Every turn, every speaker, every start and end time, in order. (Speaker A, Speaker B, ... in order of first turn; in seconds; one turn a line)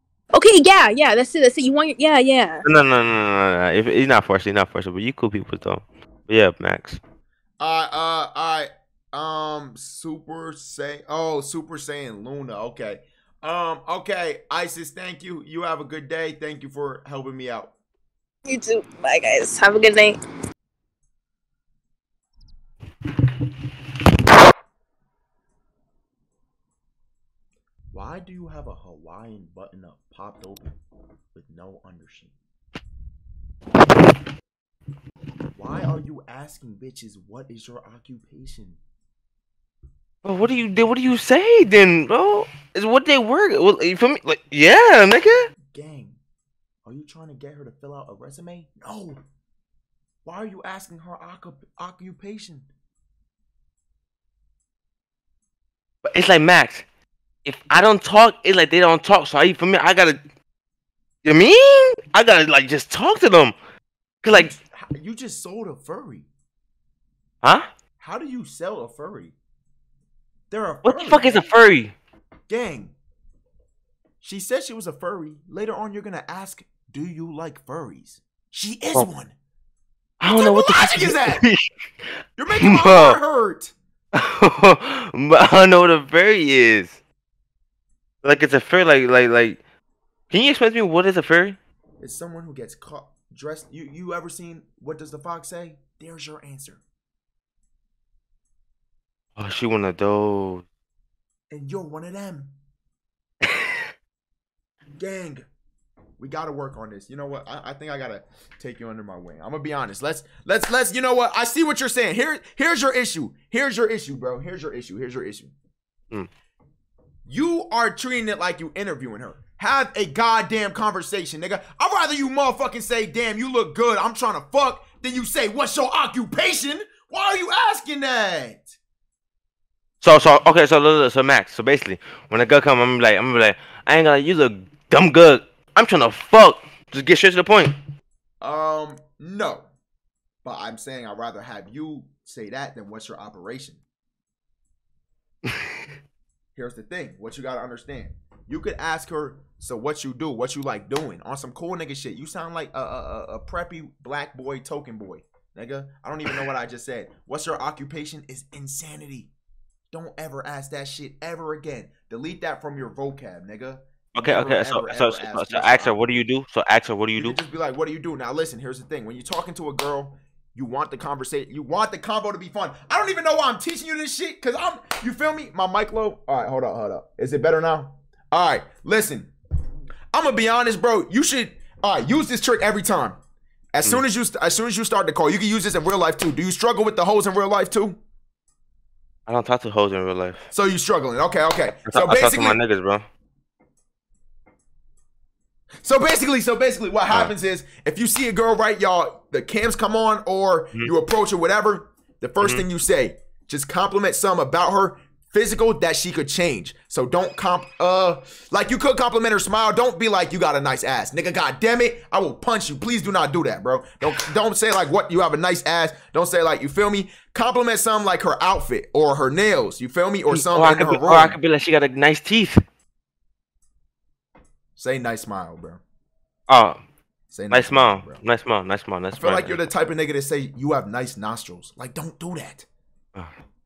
Speaker A: 0.3-2.6
Speaker B: 2.6-7.0
Speaker C: 7.6-17.7
Speaker A: 18.4-20.2
Speaker C: 27.9-30.7
Speaker C: 31.3-32.3
Speaker C: 35.5-38.8
Speaker B: 40.2-45.5
Speaker C: 45.7-46.2
Speaker C: 46.9-49.2
Speaker C: 50.2-52.7
Speaker B: 56.0-56.8
Speaker B: 57.4-60.2
Speaker B: 61.2-63.5
Speaker B: 64.2-64.5
Speaker C: 64.3-66.3
Speaker C: 68.0-69.3
Speaker C: 70.5-71.5
Speaker B: 70.8-71.9
Speaker C: 72.5-72.9
Speaker C: 74.2-79.3
Speaker B: 80.2-81.7
Speaker C: 80.3-81.4
Speaker C: 82.4-83.7
Speaker B: 82.6-83.2
Speaker B: 84.2-87.0
Speaker B: 88.2-89.6
Speaker B: 90.3-91.6
Speaker C: 92.0-96.8
Speaker B: 99.4-100.7
Speaker C: 101.5-102.5
Speaker B: 103.4-103.8
Speaker C: 105.0-105.5
Speaker C: 106.2-115.5
Speaker C: 117.3-128.8
Speaker B: 130.0-137.7
Speaker C: 138.4-139.7
Speaker C: 140.4-143.8
Speaker B: 145.4-145.7
Speaker C: 146.6-159.3
Speaker C: 159.9-166.0
Speaker B: 164.1-167.4
Speaker C: 167.2-179.3
Speaker C: 180.1-183.2
Speaker C: 183.7-188.0
Speaker B: 189.3-190.4
Speaker C: 190.5-192.6
Speaker B: 191.8-193.0
Speaker C: 195.8-221.4
Speaker B: 220.3-222.6
Speaker C: 224.8-225.8
Speaker B: 226.5-226.8
Speaker C: 227.3-228.2
Speaker B: 227.5-229.7
Speaker C: 229.2-232.7